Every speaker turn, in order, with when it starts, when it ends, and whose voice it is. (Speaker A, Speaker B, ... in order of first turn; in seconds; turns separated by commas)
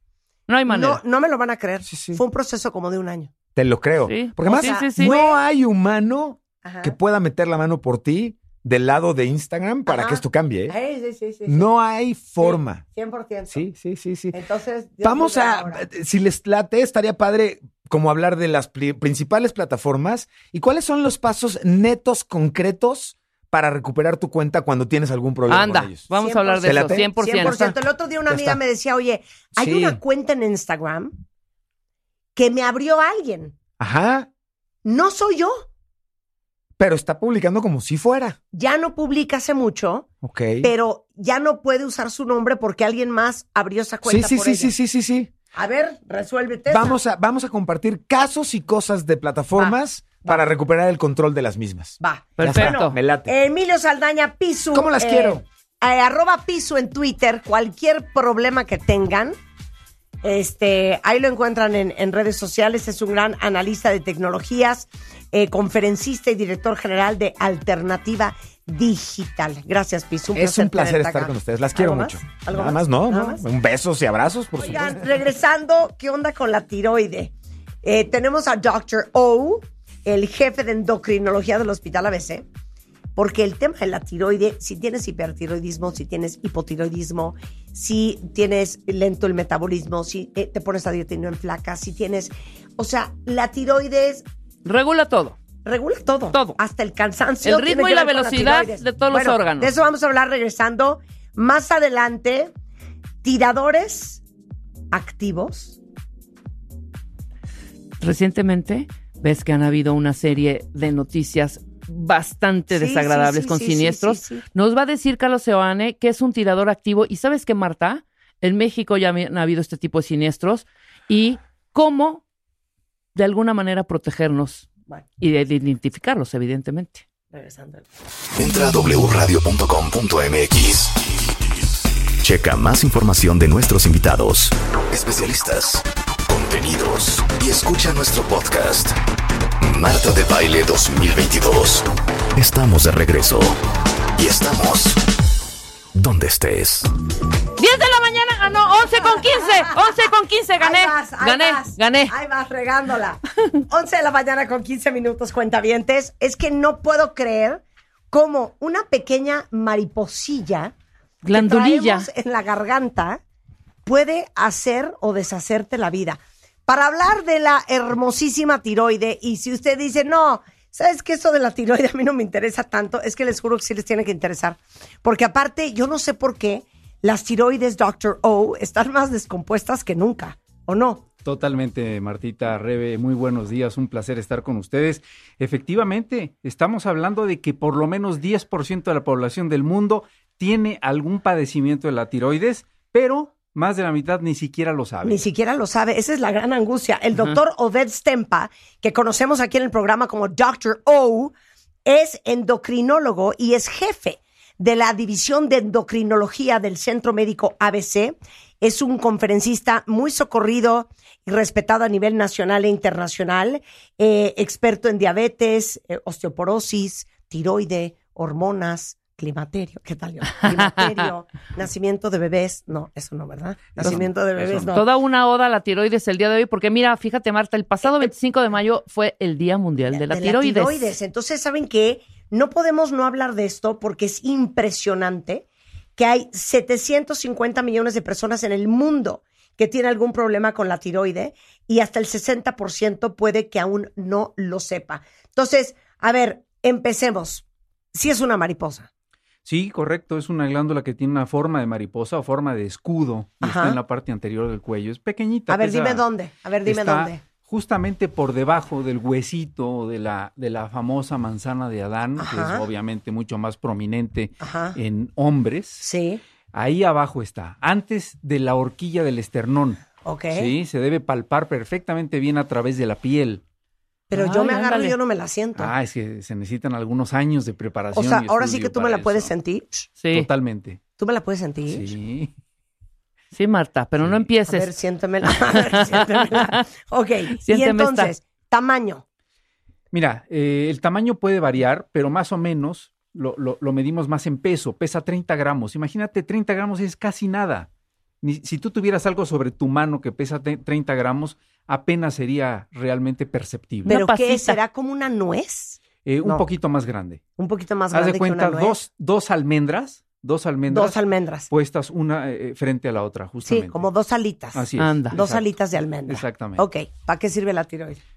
Speaker A: 0.5-1.0, Speaker B: 0.7-3.3, Speaker C: 1.9-2.2, Speaker C: 3.6-10.7, Speaker A: 4.0-5.4, Speaker B: 4.5-5.2, Speaker B: 6.6-7.0, Speaker B: 9.9-11.7, Speaker C: 11.5-12.8, Speaker B: 12.4-13.7, Speaker C: 13.5-14.3, Speaker B: 14.3-15.9, Speaker C: 15.0-26.1, Speaker A: 25.5-27.7, Speaker B: 26.1-31.2, Speaker C: 26.6-27.7, Speaker C: 28.3-28.6, Speaker C: 29.6-30.0, Speaker B: 32.4-33.6, Speaker C: 33.8-34.3, Speaker B: 34.9-35.7, Speaker C: 36.8-38.4, Speaker B: 38.5-40.1, Speaker C: 40.2-40.7, Speaker B: 40.6-44.7, Speaker C: 44.0-45.3, Speaker B: 45.5-47.0, Speaker C: 46.7-53.3, Speaker B: 49.6-50.5, Speaker B: 52.0-59.4, Speaker A: 52.4-53.0, Speaker C: 54.7-55.4, Speaker B: 60.2-73.5, Speaker C: 70.3-75.1, Speaker B: 74.6-77.3, Speaker B: 77.8-82.5, Speaker B: 83.2-94.2, Speaker A: 94.6-95.4, Speaker B: 95.6-102.5, Speaker A: 96.3-96.6, Speaker A: 97.4-99.7, Speaker B: 103.2-104.2, Speaker B: 104.9-105.8, Speaker A: 108.0-122.2, Speaker B: 112.7-114.5, Speaker A: 123.2-124.7, Speaker A: 125.2-127.1, Speaker B: 127.3-127.9, Speaker D: 128.4-131.0, Speaker D: 132.2-139.0, Speaker D: 139.6-143.6, Speaker D: 144.2-145.0, Speaker D: 146.0-146.9, Speaker A: 147.6-152.1, Speaker B: 150.6-160.7, Speaker A: 161.2-162.1, Speaker B: 161.3-163.2, Speaker B: 163.8-181.0, Speaker E: 181.2-195.2, Speaker B: 195.0-201.3, Speaker B: 201.8-224.9, Speaker A: 220.4-221.1, Speaker C: 223.8-224.6, Speaker A: 224.7-230.9, Speaker B: 227.8-228.1, Speaker B: 229.9-235.4, Speaker B: 236.0-248.9, Speaker E: 249.4-256.0, Speaker B: 253.4-253.8, Speaker B: 255.5-257.2, Speaker E: 256.6-265.9, Speaker B: 262.2-262.7, Speaker B: 264.4-264.8, Speaker B: 265.8-266.2, Speaker E: 266.5-273.4, Speaker B: 270.0-270.5, Speaker B: 274.1-275.7, Speaker A: 274.1-275.0, Speaker E: 275.6-279.3, Speaker B: 277.9-279.9, Speaker A: 280.0-280.3, Speaker E: 280.1-280.8, Speaker B: 281.0-281.9, Speaker E: 281.7-282.3, Speaker A: 283.3-284.7, Speaker E: 284.0-284.3, Speaker B: 284.5-289.0, Speaker A: 285.2-286.6, Speaker A: 287.4-288.1, Speaker E: 289.9-297.7, Speaker E: 298.2-303.9, Speaker A: 303.9-304.6, Speaker B: 303.9-306.5, Speaker E: 306.1-307.2, Speaker B: 307.4-308.8, Speaker E: 307.9-313.9, Speaker B: 310.7-311.5, Speaker B: 313.4-318.0, Speaker E: 314.5-316.7, Speaker A: 314.8-315.2